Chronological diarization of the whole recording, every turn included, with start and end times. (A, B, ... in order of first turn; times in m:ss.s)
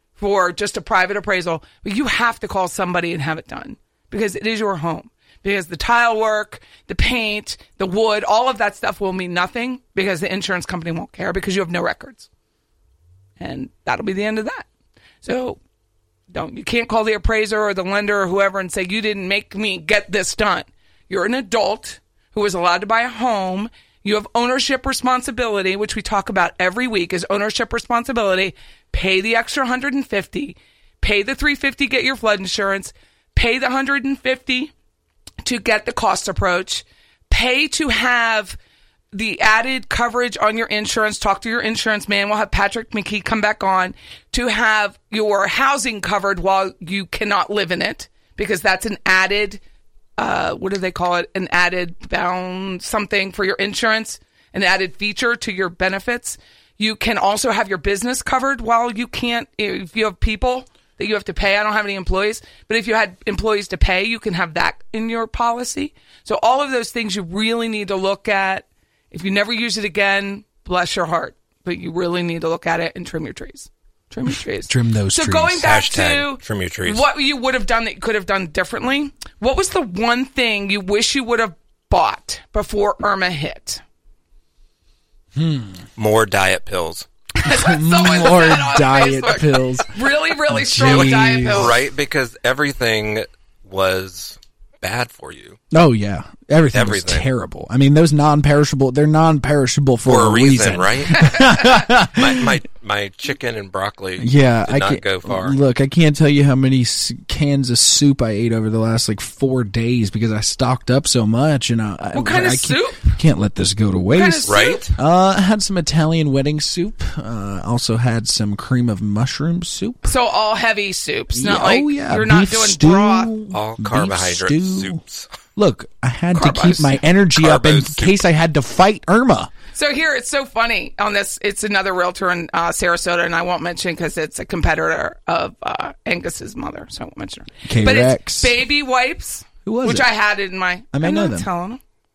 0:00.2-0:12.3 A
0:13.4-0:14.7 A
0:15.2-0:15.6 A
0:16.3-0:34.7 A
0:35.4-0:38.6 A
0:39.1-0:49.6 A
0:50.2-1:23.8 A
1:14.7-1:15.6 B
1:15.6-1:17.1 C
1:25.4-1:25.8 B
1:26.0-1:27.1 C
1:27.4-1:31.8 A
1:27.4-1:29.9 B
1:30.5-1:31.7 B
1:30.8-1:35.6 C
1:35.7-1:42.5 B
1:36.7-1:37.3 C
1:40.1-1:45.6 C
1:41.2-1:41.5 A
1:44.2-2:00.1 B
1:52.1-1:53.2 A
1:54.1-1:54.9 A
1:54.5-1:54.9 C
2:00.1-2:03.3 A
2:01.3-2:05.0 B
2:03.5-2:05.3 C
2:05.6-2:09.5 B
2:06.3-2:07.0 A
2:07.4-2:08.2 C
2:09.8-2:21.8 A
2:17.6-2:18.5 B
2:19.6-2:20.1 B
2:20.9-2:21.5 B